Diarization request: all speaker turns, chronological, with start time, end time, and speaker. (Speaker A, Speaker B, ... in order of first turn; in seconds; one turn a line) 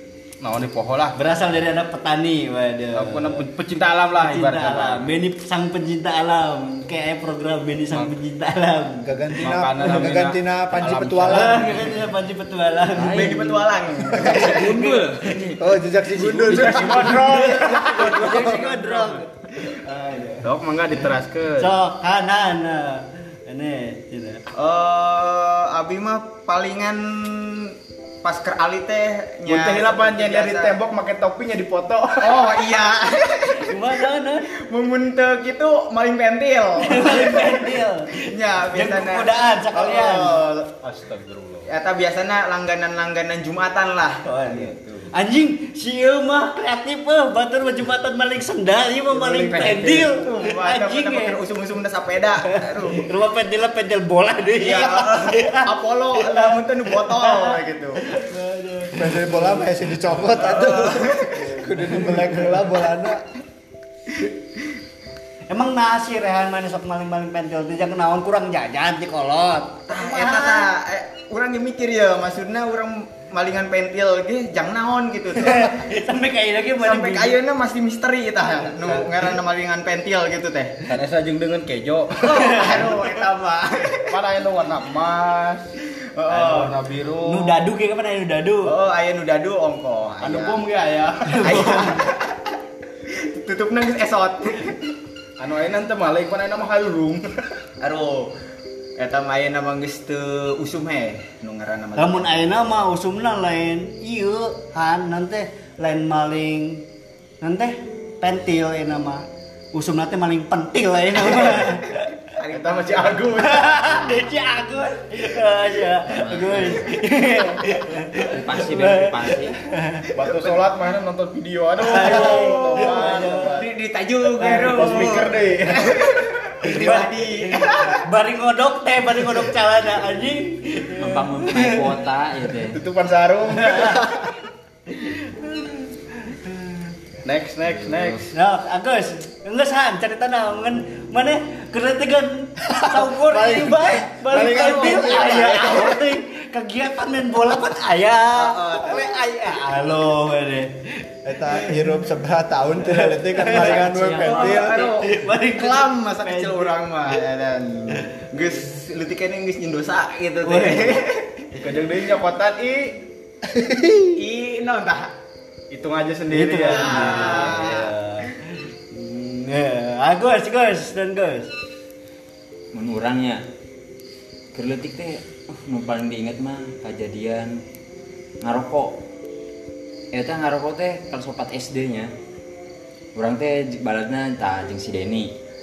Speaker A: 0.4-1.2
Speaker B: 1.1-3.5
Speaker A: 2.9-5.1
Speaker B: 4.2-10.3
Speaker C: 9.0-11.6
Speaker A: 9.4-11.9
Speaker B: 11.3-13.4
Speaker D: 12.9-17.1
Speaker E: 13.1-14.7
Speaker C: 14.1-14.5
Speaker B: 14.2-15.2
Speaker C: 15.6-17.3
Speaker A: 16.4-19.2
Speaker B: 16.7-20.5
Speaker E: 17.2-18.5
Speaker A: 20.4-21.7
Speaker B: 21.6-24.4
Speaker E: 24.5-30.8
Speaker A: 29.5-32.5
Speaker E: 32.2-33.8
Speaker B: 33.6-34.5
Speaker E: 34.5-40.5
Speaker B: 36.8-40.4
Speaker A: 40.6-41.7
Speaker E: 41.7-44.9
Speaker B: 44.2-51.4
Speaker D: 49.2-50.1
Speaker E: 50.1-53.1
Speaker B: 52.8-59.7
Speaker E: 54.6-58.0
Speaker C: 58.9-63.3
Speaker E: 60.3-61.3
Speaker B: 61.1-62.7
Speaker B: 65.5-70.7
Speaker E: 69.9-75.7
Speaker B: 75.4-77.4
Speaker E: 76.8-80.8
Speaker A: 78.8-79.2
Speaker A: 80.9-82.3
Speaker B: 82.2-83.1
Speaker E: 82.2-84.2
Speaker A: 84.1-85.7
Speaker E: 86.2-86.8
Speaker A: 86.3-87.7
Speaker B: 87.2-88.8
Speaker E: 88.6-90.6
Speaker A: 90.2-91.5
Speaker B: 91.2-92.1
Speaker E: 91.4-92.5
Speaker E: 93.1-94.9
Speaker A: 95.4-97.3
Speaker E: 97.8-98.3
Speaker E: 99.0-102.5
Speaker B: 102.0-106.8
Speaker B: 107.4-112.0
Speaker E: 111.3-111.7
Speaker E: 112.2-113.3
Speaker A: 112.5-114.1
Speaker B: 113.3-120.1
Speaker D: 116.1-116.9
Speaker D: 118.3-119.6
Speaker A: 120.2-123.7
Speaker E: 120.2-120.5
Speaker E: 121.8-128.1
Speaker B: 121.9-123.7
Speaker B: 124.4-125.3
Speaker A: 124.4-126.4
Speaker B: 126.7-131.9
Speaker D: 131.0-132.8
Speaker A: 132.7-134.1
Speaker B: 133.5-134.3
Speaker B: 134.9-136.9
Speaker A: 137.2-138.3
Speaker D: 137.7-138.2
Speaker B: 138.3-150.7
Speaker C: 142.8-146.0
Speaker E: 144.5-145.9
Speaker E: 148.3-149.1
Speaker C: 151.2-154.8
Speaker B: 151.5-152.0
Speaker B: 152.8-156.8
Speaker D: 153.5-154.5
Speaker E: 154.2-161.4
Speaker B: 160.4-161.0
Speaker A: 161.6-163.0
Speaker C: 163.5-164.1
Speaker E: 164.2-165.1
Speaker A: 165.7-167.5
Speaker B: 166.3-168.4
Speaker E: 166.7-167.9
Speaker B: 168.9-171.5
Speaker D: 172.7-173.4
Speaker D: 174.5-177.6
Speaker D: 178.4-179.0
Speaker D: 180.1-182.1
Speaker D: 183.2-185.3